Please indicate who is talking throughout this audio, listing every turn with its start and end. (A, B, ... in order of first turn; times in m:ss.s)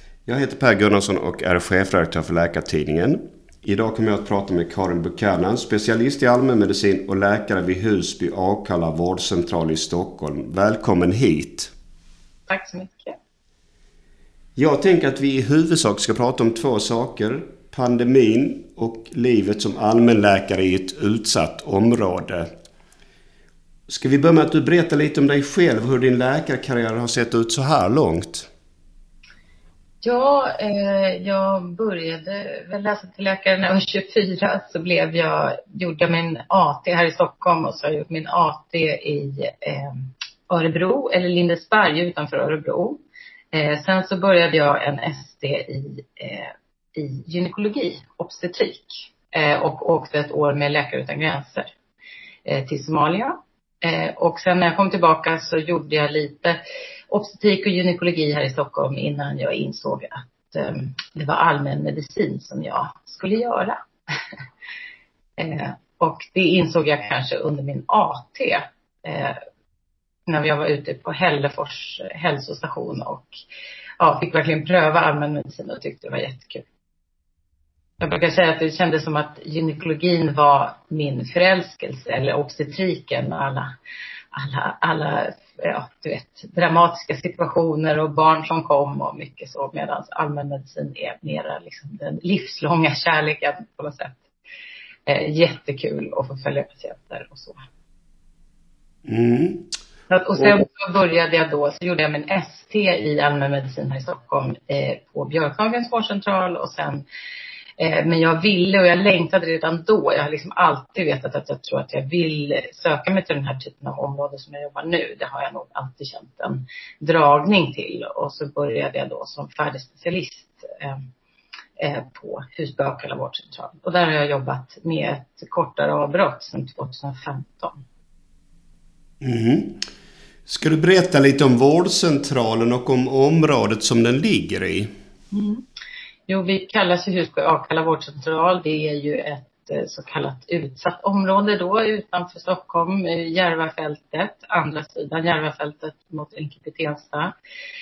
0:00.2-0:11.7 A
0:12.5-0:13.2 B
0:14.6-0:22.5 A
0:23.9-0:28.5 A
0:30.0-0:40.0 B
0:40.5-0:43.0 B
0:43.5-0:51.7 B
0:52.4-0:56.6 B
0:57.1-1:03.8 B
1:05.4-1:09.4 B
1:10.3-1:13.3 B
1:14.0-1:16.6 B
1:18.0-1:23.7 B
1:24.3-1:34.2 B
1:35.0-1:37.6 B
1:39.0-1:39.7 A
1:40.1-1:47.0 B
1:47.8-2:01.0 B
2:01.8-2:07.8 B
2:09.2-2:09.8 A
2:10.5-2:14.9 A
2:15.3-2:15.6 B
2:16.3-2:27.3 B